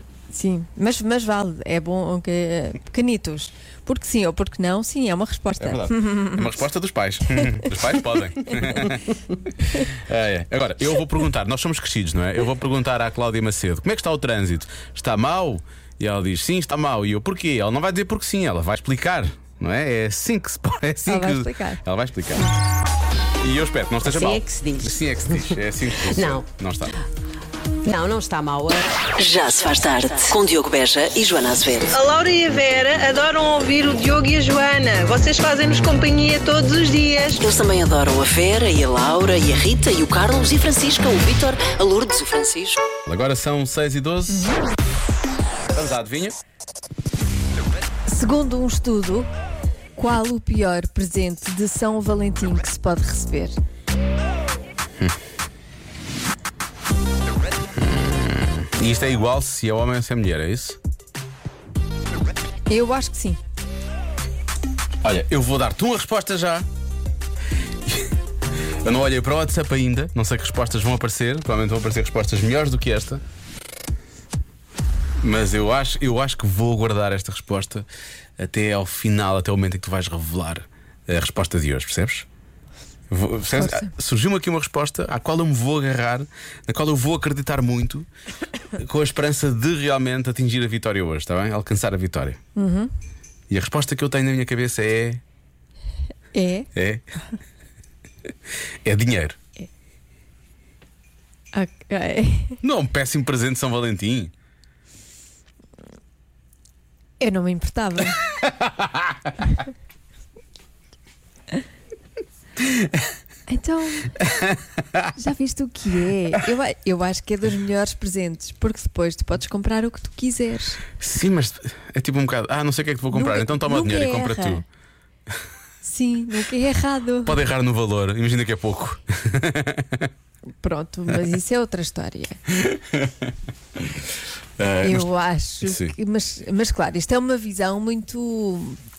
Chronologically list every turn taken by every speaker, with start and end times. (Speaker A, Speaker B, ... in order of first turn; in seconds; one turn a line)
Speaker A: 0.3-6.5
Speaker B: 5.6-22.5
Speaker A: 21.1-21.8
Speaker B: 23.4-26.9
Speaker C: 24.0-25.6
Speaker C: 26.1-26.4
Speaker C: 27.8-28.9
Speaker D: 29.2-31.9
Speaker E: 31.9-37.4
Speaker D: 37.4-42.8
Speaker B: 43.0-44.5
Speaker A: 44.3-44.6
Speaker B: 45.7-46.4
Speaker A: 48.1-49.3
Speaker A: 50.0-53.6
Speaker B: 57.7-60.8
Speaker A: 62.7-63.4
Speaker B: 65.0-66.7
Speaker B: 67.8-68.1
Speaker B: 68.8-73.2
Speaker B: 75.2-77.9
Speaker B: 78.4-82.3
Speaker B: 83.1-88.1
Speaker A: 83.5-83.9
Speaker B: 88.7-92.4
Speaker A: 92.5-92.9
Speaker B: 93.5-95.2
Speaker A: 96.3-96.7
Speaker B: 96.8-97.1
Speaker B: 98.8-99.4
Speaker A: 101.5-102.6
Speaker B: 102.6-104.3
Speaker A: 107.2-108.2
Speaker B: 108.4-109.3
Speaker B: 112.7-113.1
Speaker A: 113.5-114.1
Speaker B: 114.2-115.1
Speaker A: 115.2-120.8
Speaker B: 121.0-124.6
Speaker A: 123.1-124.6
Speaker A: 125.8-127.4
Speaker B: 127.2-130.1
Speaker A: 130.6-132.4
Speaker B: 132.5-134.0
Speaker B: 134.6-135.1
Speaker A: 134.8-138.8
Speaker B: 135.6-135.9